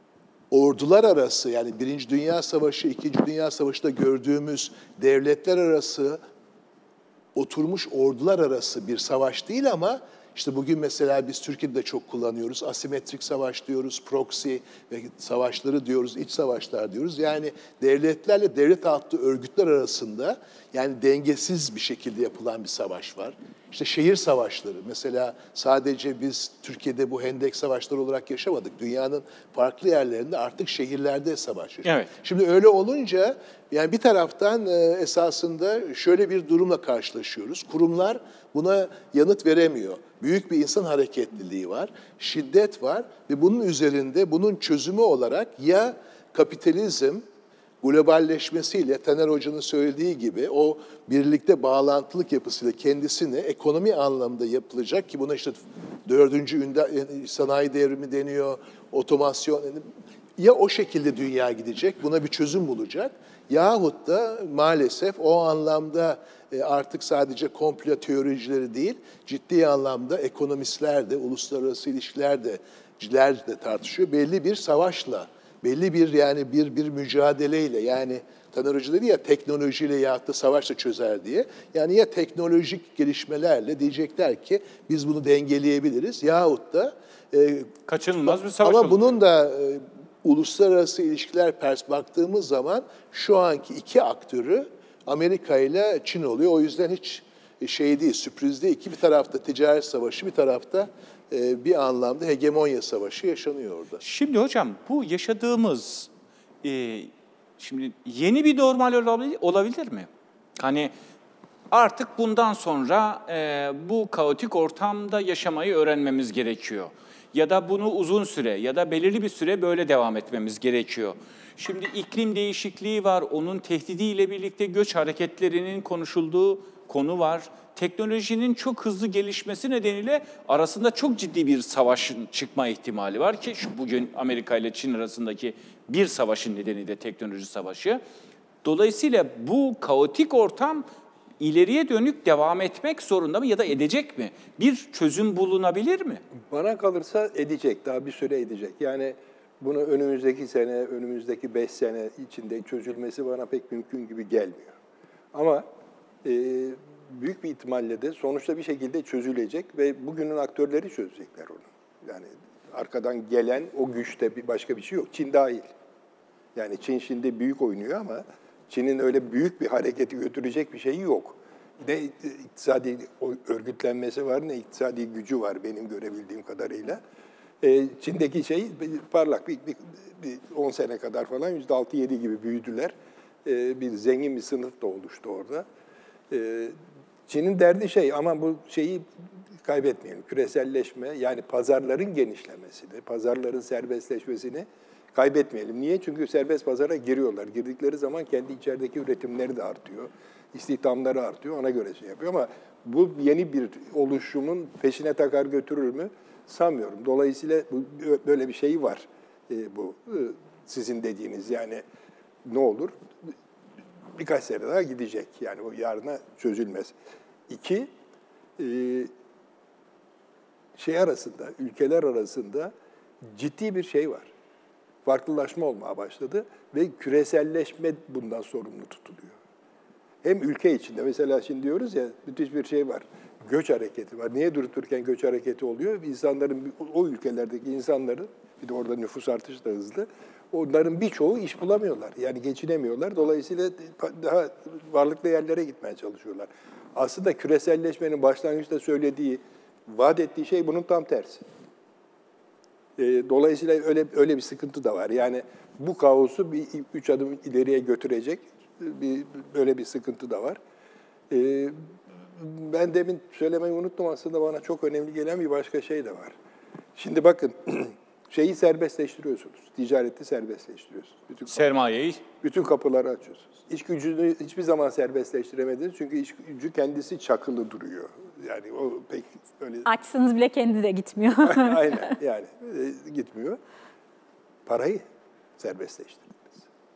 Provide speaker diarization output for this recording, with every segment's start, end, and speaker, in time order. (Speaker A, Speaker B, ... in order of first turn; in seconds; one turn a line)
Speaker A: 0.5-6.2
Speaker A: 7.3-47.2
Speaker B: 31.8-32.1
Speaker A: 47.8-87.7
Speaker B: 87.9-89.1
Speaker A: 88.3-104.0
Speaker B: 104.0-106.1
Speaker B: 106.6-110.9
Speaker B: 111.7-138.0
Speaker B: 138.6-140.9
Speaker B: 141.4-146.2
Speaker C: 146.5-154.7
Speaker C: 155.3-155.7
Speaker C: 156.2-165.7
Speaker C: 166.6-177.0
Speaker C: 177.6-182.9
Speaker C: 183.4-185.7
Speaker C: 186.3-186.8
Speaker C: 187.3-189.1
Speaker C: 189.6-211.8
Speaker C: 212.4-212.9
Speaker C: 214.2-216.9
Speaker C: 217.5-217.9
Speaker C: 218.6-219.1
Speaker C: 220.8-222.7
Speaker C: 223.3-224.3
Speaker C: 225.1-229.4
Speaker C: 230.2-251.4
Speaker C: 253.0-260.6
Speaker C: 261.3-266.3
Speaker C: 267.0-271.7
Speaker B: 271.5-272.2
Speaker C: 272.4-279.9
Speaker D: 279.8-282.1
Speaker C: 281.4-283.6
Speaker C: 284.6-285.1
Speaker C: 285.6-286.6